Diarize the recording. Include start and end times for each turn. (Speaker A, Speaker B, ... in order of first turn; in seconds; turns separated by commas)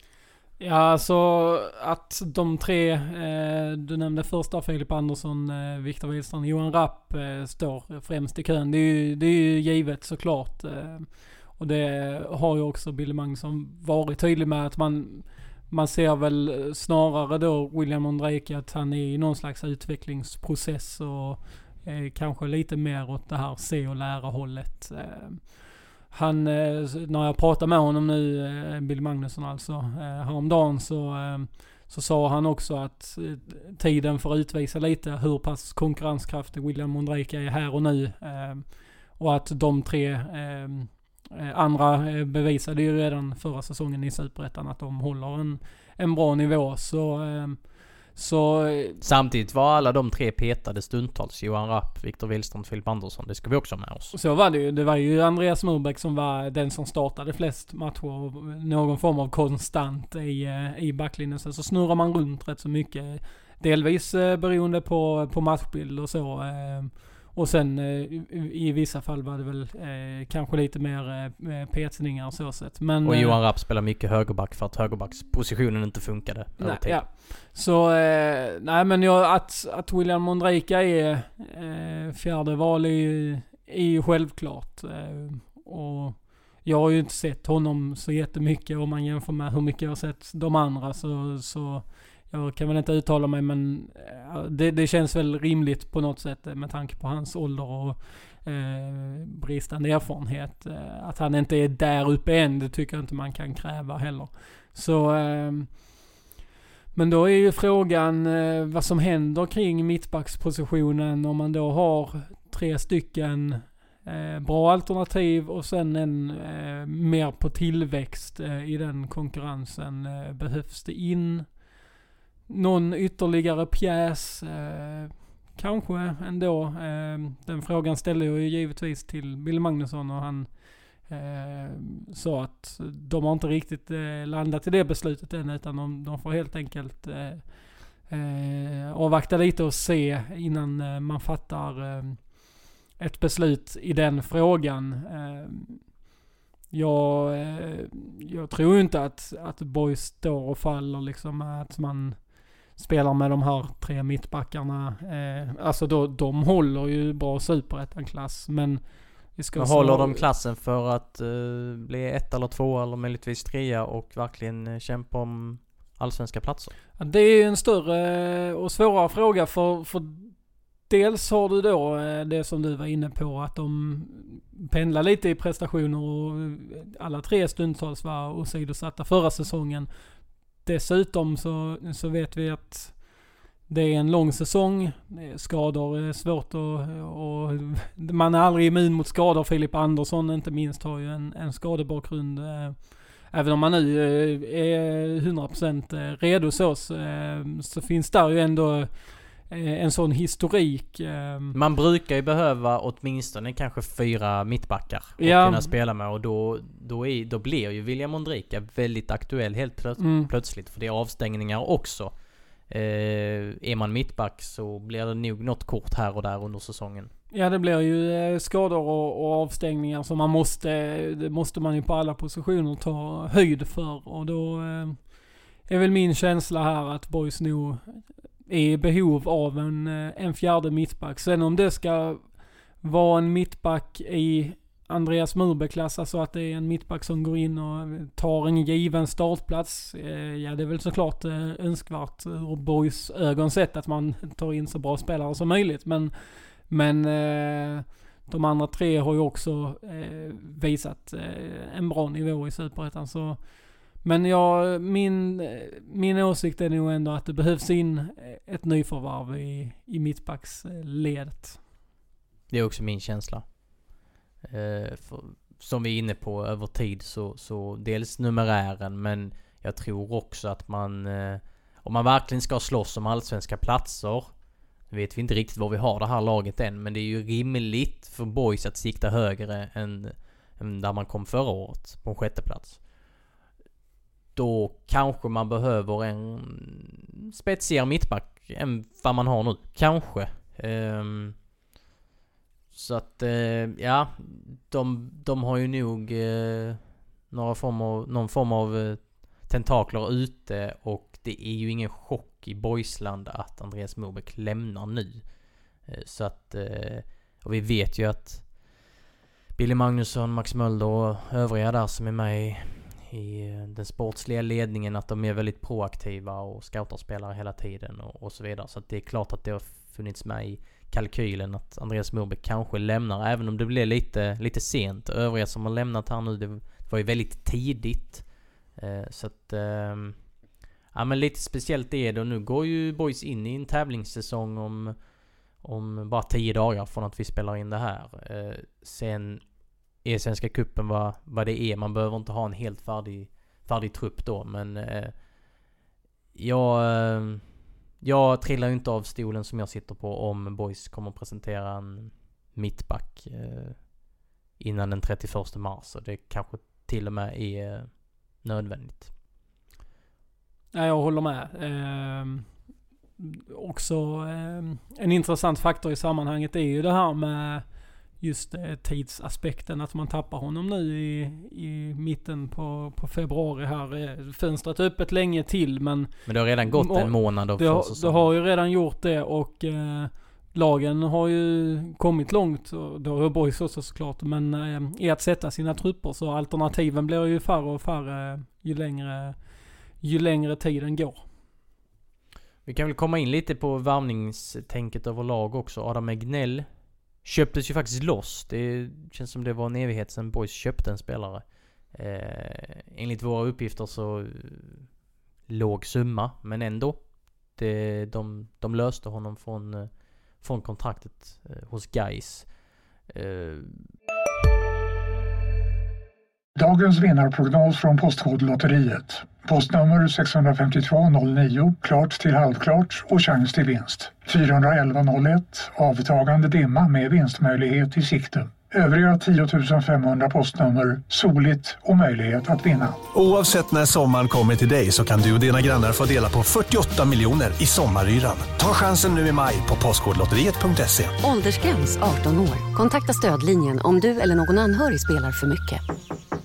Speaker A: 0.6-49.0, Speaker B: 49.0-54.1, Speaker A: 54.1-73.4, Speaker B: 73.0-77.0, Speaker A: 76.6-106.0, Speaker A: 106.9-121.7, Speaker A: 122.5-146.0, Speaker A: 146.7-160.2, Speaker B: 159.6-166.8, Speaker A: 167.0-179.9, Speaker A: 180.6-201.6, Speaker B: 201.5-212.1, Speaker A: 205.2-205.7, Speaker A: 210.0-210.3, Speaker B: 212.7-217.1, Speaker A: 217.3-261.6, Speaker B: 262.5-263.9, Speaker B: 264.4-274.3, Speaker B: 274.9-282.8, Speaker B: 284.4-291.4, Speaker B: 292.7-305.2, Speaker B: 305.9-308.9, Speaker B: 309.6-330.2, Speaker B: 330.9-335.0, Speaker B: 335.6-339.4, Speaker B: 340.0-345.1, Speaker B: 346.4-347.4, Speaker B: 348.0-359.1, Speaker A: 360.7-362.6, Speaker A: 363.2-389.4, Speaker B: 376.3-378.3, Speaker A: 390.0-391.3, Speaker B: 392.7-396.7, Speaker B: 397.2-404.9, Speaker B: 405.5-413.9, Speaker C: 416.6-433.0, Speaker D: 433.1-441.1, Speaker E: 441.2-445.8